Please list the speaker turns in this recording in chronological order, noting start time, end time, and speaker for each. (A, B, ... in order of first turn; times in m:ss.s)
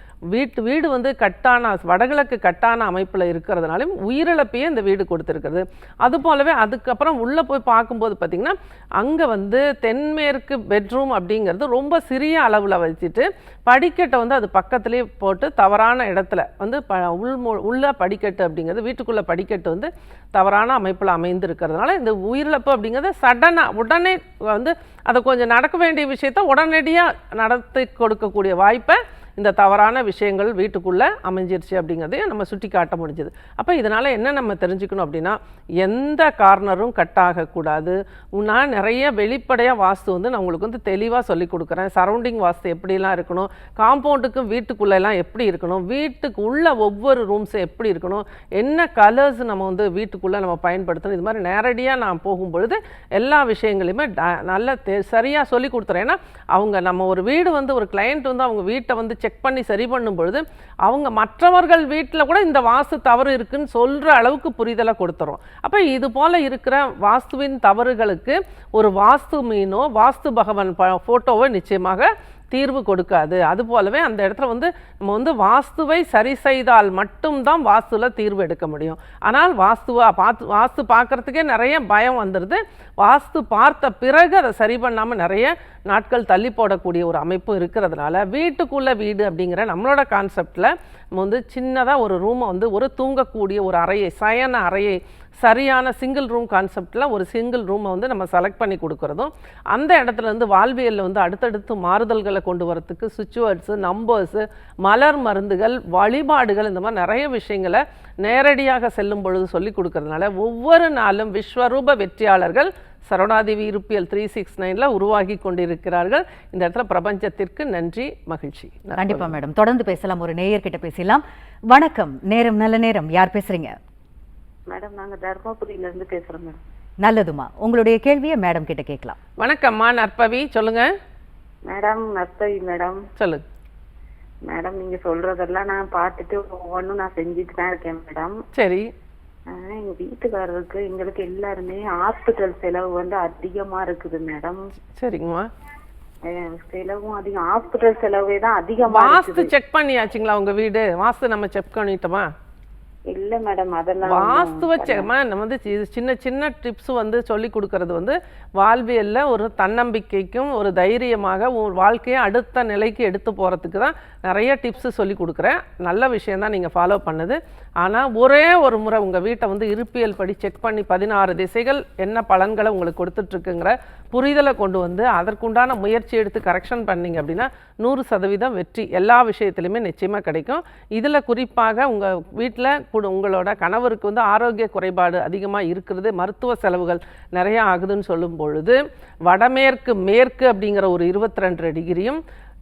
0:00.3-1:59.3 A
1:59.0-2:03.8 B
2:04.7-2:06.6 C
2:07.0-2:09.2 B
2:09.4-2:10.9 A
2:11.7-2:13.0 C
2:13.2-2:13.4 A
2:14.5-2:18.4 C
2:18.5-2:18.9 A
2:19.5-2:24.7 C
2:24.9-2:25.5 A
2:26.2-2:29.5 C
2:28.9-2:32.3 A
2:33.1-2:35.1 C
2:34.0-3:12.2 A